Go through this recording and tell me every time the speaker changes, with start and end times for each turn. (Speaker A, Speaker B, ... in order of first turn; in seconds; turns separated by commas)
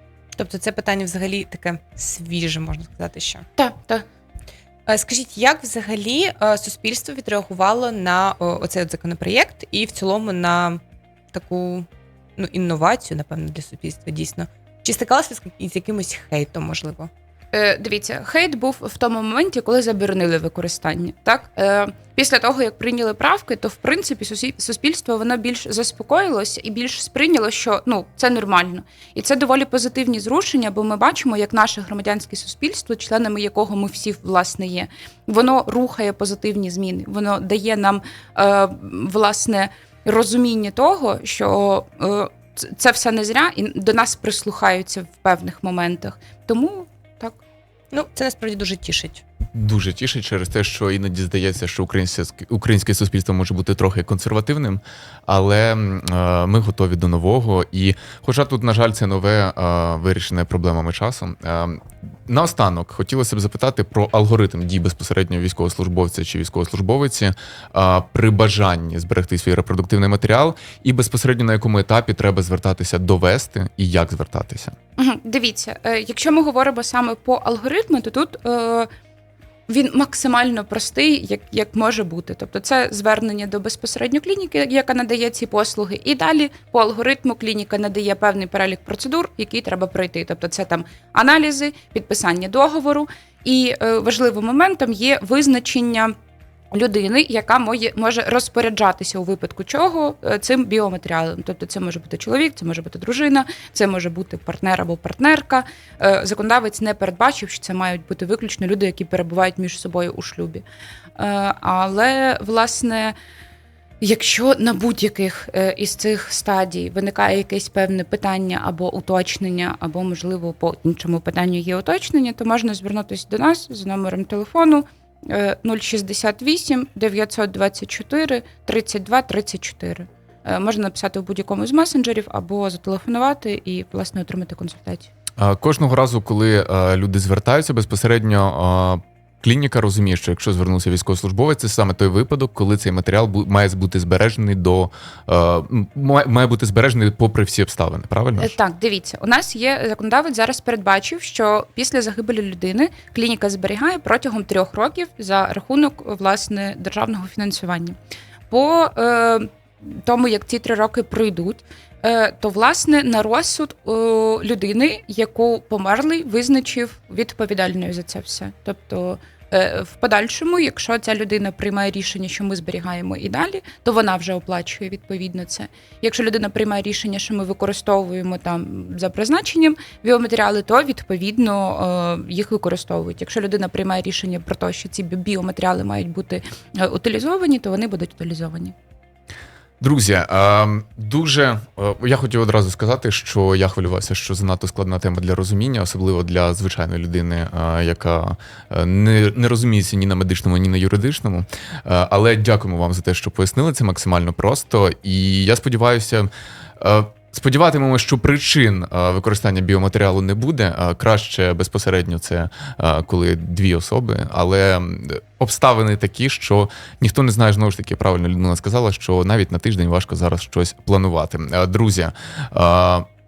Speaker A: 0.4-3.5, Speaker B: 3.6-4.0, Speaker A: 4.9-10.8, Speaker A: 11.3-17.1, Speaker B: 17.5-47.4, Speaker A: 47.9-49.2, Speaker C: 49.5-74.8, Speaker B: 75.0-78.9, Speaker B: 79.7-96.2, Speaker B: 96.7-110.6, Speaker B: 111.2-113.2, Speaker B: 114.0-135.1, Speaker C: 135.4-148.6, Speaker B: 148.4-158.0, Speaker B: 158.5-188.8, Speaker C: 189.8-223.1